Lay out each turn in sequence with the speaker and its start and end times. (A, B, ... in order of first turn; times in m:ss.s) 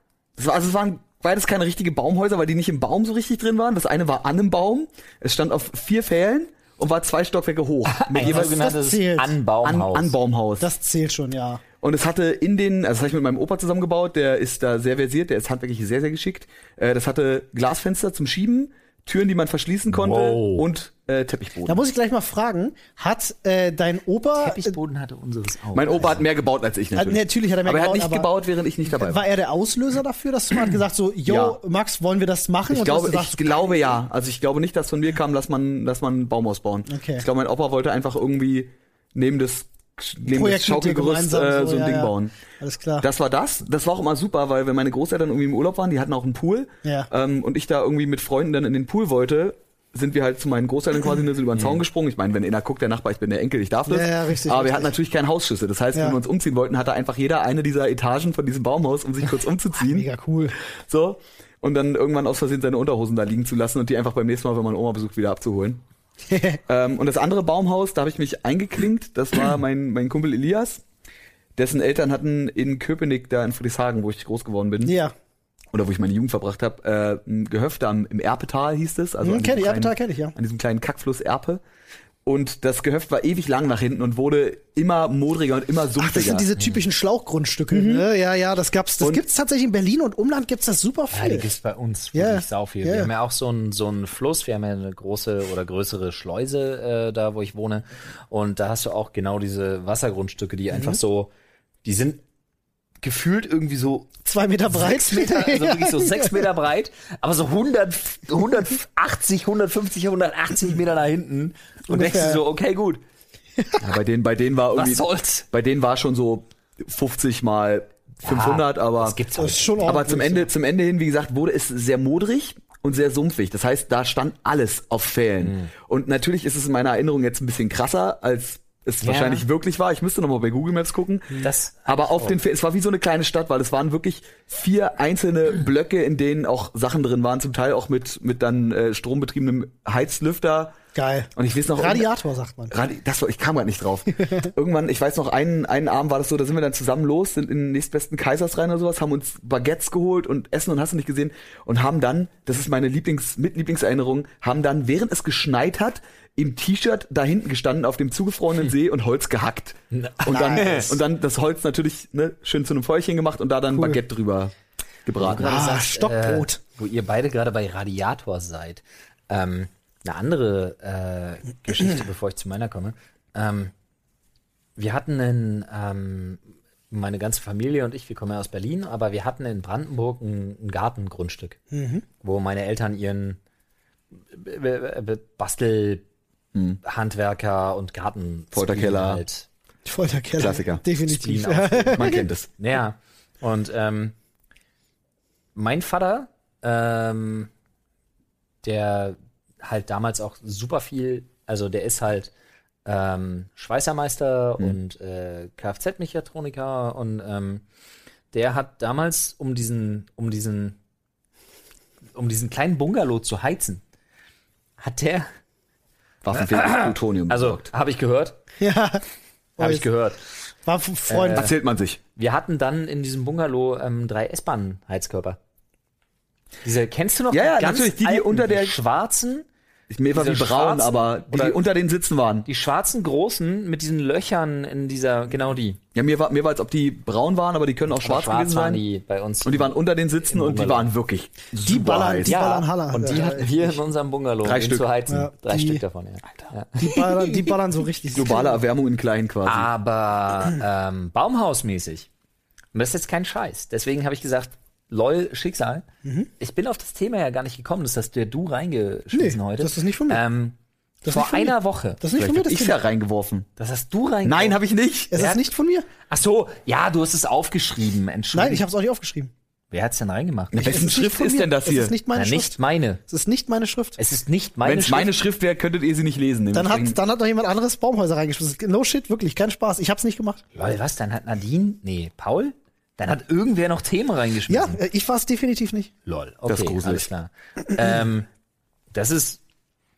0:00.4-0:08.7 A
0:07.9-0:10.1 B
0:08.2-0:09.4 C
0:09.6-0:10.7 A
0:10.6-0:11.6 C
0:11.8-0:21.8 A
0:19.9-0:20.7 B
0:21.6-0:24.8 C
0:24.4-0:26.2 B
0:25.7-0:29.2 A
0:26.9-0:28.3 C
0:28.9-0:34.0 C
0:31.3-0:31.6 A
0:32.7-0:42.3 A
0:36.9-0:37.3 C
0:40.2-0:43.0 C
0:43.0-1:00.1 A
0:46.8-0:47.1 C
0:51.6-0:51.8 B
0:53.9-0:54.9 C
0:59.9-1:00.5 C
1:00.9-1:05.8 A
1:06.3-1:06.6 C
1:06.7-1:10.8 A
1:11.6-1:14.9 A
1:14.8-1:15.1 C
1:15.7-1:21.6 A
1:19.2-1:20.4 C
1:22.2-1:26.5 A
1:26.0-1:31.5 C
1:27.7-1:28.0 A
1:31.1-1:41.3 B
1:32.1-1:33.1 C
1:40.7-1:41.0 C
1:41.8-1:42.2 B
1:43.0-1:44.1 B
1:44.2-1:46.4 C
1:44.7-1:53.0 B
1:51.9-1:52.4 C
1:53.6-1:53.8 C
1:53.8-1:59.2 A
1:54.7-1:55.4 B
1:58.2-2:00.0 B
1:59.3-2:00.5 C
1:59.8-2:20.8 A
2:05.4-2:05.7 B
2:09.0-2:09.4 B
2:11.4-2:12.4 B
2:20.9-2:22.7 C
2:21.4-2:22.1 A
2:22.7-2:44.5 A
2:24.2-2:24.5 C
2:39.9-2:41.0 B
2:40.3-2:41.0 C
2:43.7-2:44.0 C
2:45.0-2:45.6 A
2:45.2-2:53.7 B
2:45.3-2:46.6 C
2:54.8-3:01.6 B
3:01.7-3:02.0 C
3:02.2-3:03.4 B
3:04.3-3:06.0 B
3:06.5-3:06.8 A
3:06.8-3:09.5 B
3:08.5-3:09.2 A
3:09.8-3:12.2 C
3:10.4-3:10.8 A
3:11.0-3:14.1 B
3:12.0-3:12.5 A
3:15.5-3:17.5 B
3:18.6-3:22.3 B
3:22.9-3:27.6 B
3:28.3-3:30.8 B
3:32.1-3:33.8 B
3:34.8-3:35.3 B
3:36.2-3:37.7 A
3:36.3-3:38.4 B
3:38.6-3:39.0 C
3:39.6-3:39.8 C
3:39.6-3:40.2 B
3:40.6-3:41.5 C
3:41.1-3:41.5 B
3:41.3-3:42.0 A
3:42.1-3:45.4 B
3:46.6-3:49.4 B
3:47.3-3:48.8 A
3:49.9-3:52.5 A
3:50.1-3:51.6 B
3:52.5-3:55.8 B
3:55.9-3:58.8 A
3:58.0-4:00.9 B
3:59.4-4:02.4 A
4:01.6-4:03.8 C
4:02.2-4:07.5 B
4:04.4-4:04.9 A
4:05.1-4:05.8 C
4:06.8-4:08.6 C
4:08.1-4:09.7 A
4:09.4-4:12.1 B
4:12.7-4:15.9 B
4:16.0-4:16.3 C
4:16.4-4:22.0 B
4:19.1-4:20.2 C
4:21.0-4:22.8 C
4:22.1-4:23.5 A
4:23.6-4:24.6 B
4:24.2-4:25.2 A
4:25.1-4:25.9 C
4:25.2-4:25.5 B
4:26.0-4:28.7 B
4:28.3-4:29.3 C
4:29.7-4:30.8 B
4:30.5-4:32.0 A
4:30.6-4:32.6 C
4:32.1-4:33.0 B
4:33.1-4:34.0 C
4:34.0-4:35.1 B
4:34.6-4:37.0 A
4:36.5-4:40.4 C
4:40.5-4:44.8 B
4:44.5-4:45.9 C
4:46.0-4:48.3 B
4:46.4-4:47.1 A
4:48.9-4:49.4 B